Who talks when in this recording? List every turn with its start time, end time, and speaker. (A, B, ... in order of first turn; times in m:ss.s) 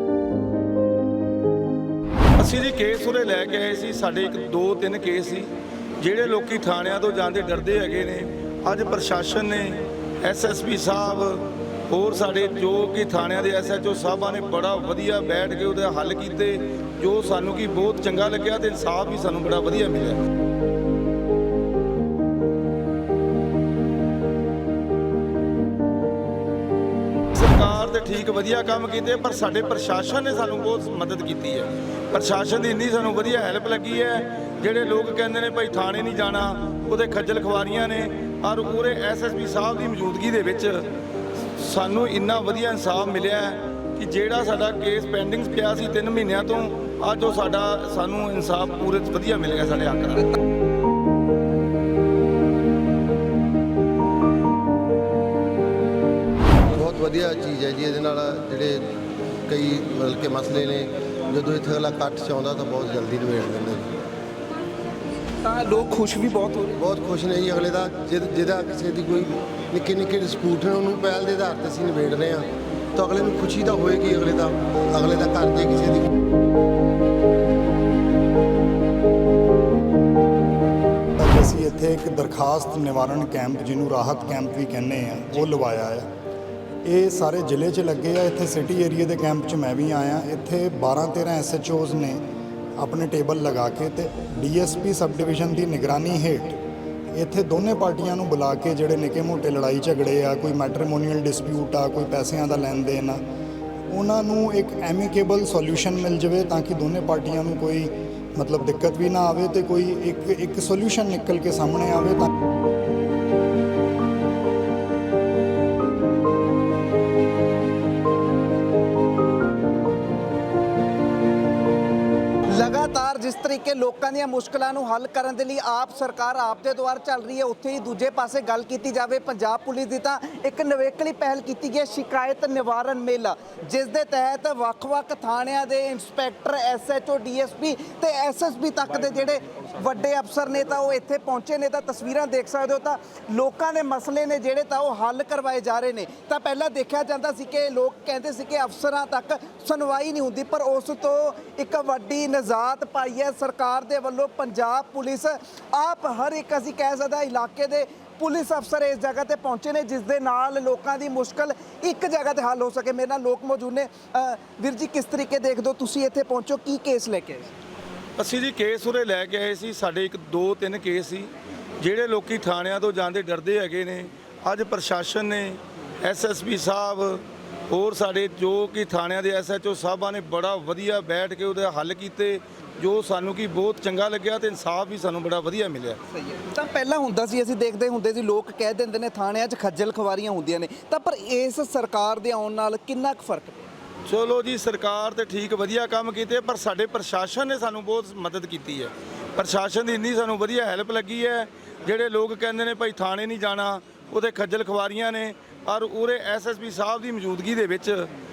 0:02.4-0:20.2 A
0:27.3-0:40.9 A
0:41.6-0:50.3 A
0:56.7-0:58.9 B
0:59.5-1:04.0 B
1:05.4-1:06.8 C
1:06.8-1:16.1 B
1:21.2-1:26.1 D
1:26.8-1:32.2 D
1:32.8-1:36.6 D
1:37.1-1:43.2 D
1:43.9-1:52.3 D
2:02.5-2:47.5 C
2:48.2-3:06.0 A
3:06.1-3:13.7 C
3:14.1-3:28.1 A